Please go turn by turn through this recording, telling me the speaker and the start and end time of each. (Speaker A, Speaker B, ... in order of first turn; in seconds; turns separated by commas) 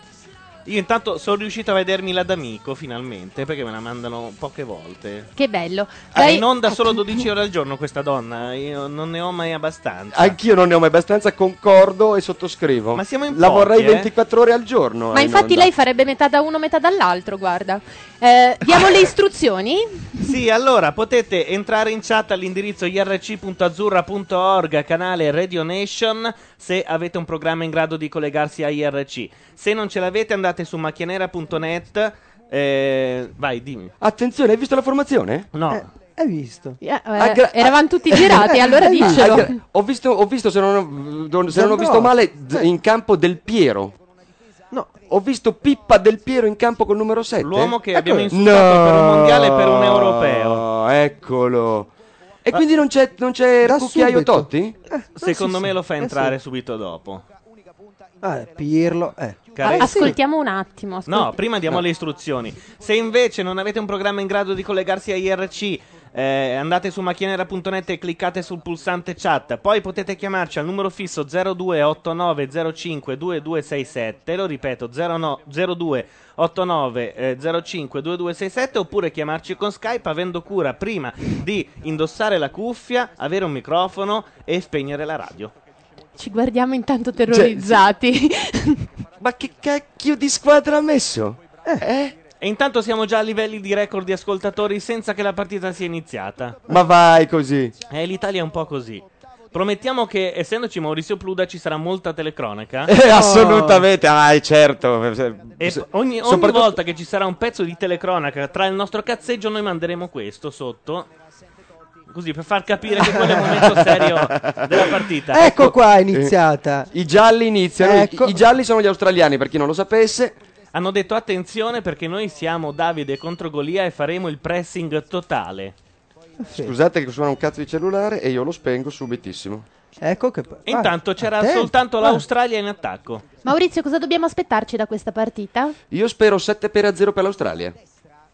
Speaker A: 0.7-5.3, Speaker B: 5.4-7.0, Speaker A: 6.1-10.4, Speaker C: 10.1-15.7, Speaker A: 12.9-14.1, Speaker B: 15.1-20.2, Speaker A: 20.2-33.9, Speaker C: 34.0-35.5, Speaker A: 35.5-35.9, Speaker D: 35.7-36.8, Speaker B: 36.8-39.6, Speaker C: 37.2-38.3, Speaker D: 38.2-39.5, Speaker C: 39.0-44.0, Speaker D: 41.5-42.6, Speaker C: 45.1-47.8, Speaker A: 47.4-50.6, Speaker D: 48.0-48.3, Speaker C: 48.3-51.9, Speaker C: 52.5-54.8, Speaker D: 53.6-56.3, Speaker A: 55.2-57.2, Speaker D: 58.2-60.2, Speaker A: 59.6-60.1, Speaker B: 59.8-61.4, Speaker A: 61.1-85.5, Speaker B: 86.2-88.9, Speaker C: 87.3-87.8, Speaker C: 89.2-92.2, Speaker A: 92.4-96.6, Speaker C: 96.7-97.7, Speaker A: 97.9-102.9, Speaker C: 102.9-106.8, Speaker D: 103.0-103.8, Speaker A: 105.6-111.1, Speaker A: 112.1-115.7, Speaker C: 113.7-114.8, Speaker D: 115.3-116.9, Speaker C: 115.4-116.3, Speaker C: 116.9-120.4, Speaker D: 117.8-118.4, Speaker A: 120.7-125.8, Speaker D: 126.4-126.7, Speaker C: 126.5-129.7, Speaker D: 130.0-132.2, Speaker A: 130.7-133.2, Speaker B: 133.4-135.8, Speaker C: 135.9-137.8